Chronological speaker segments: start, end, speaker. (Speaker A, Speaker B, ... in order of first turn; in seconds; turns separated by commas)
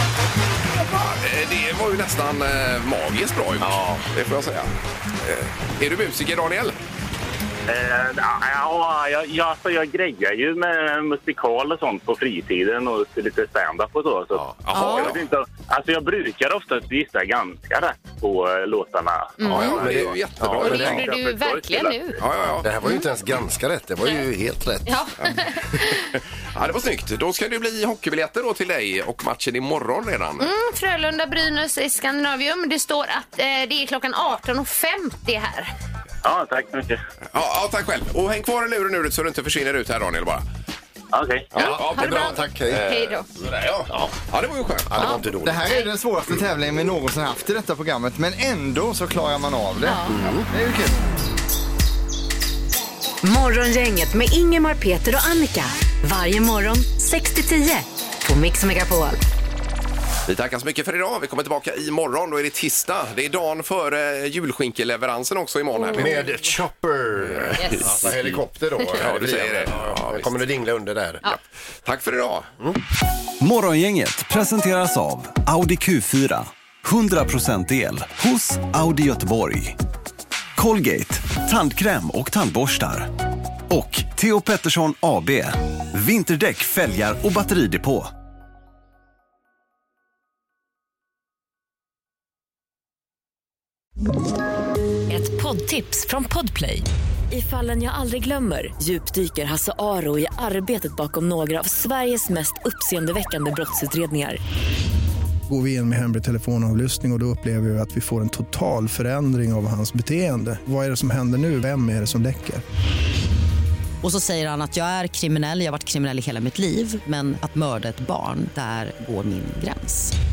Speaker A: 0.8-6.8, Speaker B: 3.6-4.0, Speaker C: 7.7-20.1, Speaker A: 14.6-15.2, Speaker D: 14.7-15.1, Speaker D: 19.4-19.9, Speaker A: 19.4-21.1, Speaker B: 19.5-21.1, Speaker D: 20.6-22.2, Speaker C: 20.6-22.0, Speaker A: 22.2-22.7, Speaker B: 22.6-25.0, Speaker D: 24.9-26.1, Speaker A: 26.1-30.4, Speaker D: 30.4-35.7, Speaker C: 36.2-37.0, Speaker A: 37.3-40.4, Speaker C: 41.1-41.5, Speaker A: 41.5-45.2, Speaker B: 41.5-42.9, Speaker D: 41.5-43.3, Speaker B: 43.9-44.1, Speaker B: 44.8-45.7, Speaker D: 45.0-45.9, Speaker E: 45.4-50.9, Speaker D: 49.8-50.2, Speaker B: 50.1-50.5, Speaker F: 53.2-59.2, Speaker A: 60.3-66.1, Speaker D: 65.8-66.3, Speaker B: 65.9-71.2, Speaker A: 67.4-68.3, Speaker D: 67.6-67.9, Speaker A: 69.0-70.4, Speaker A: 71.8-72.5, Speaker G: 73.4-79.8, Speaker G: 80.5-83.1, Speaker G: 83.7-88.1, Speaker H: 95.1-104.4, Speaker I: 105.5-112.6, Speaker J: 114.0-120.1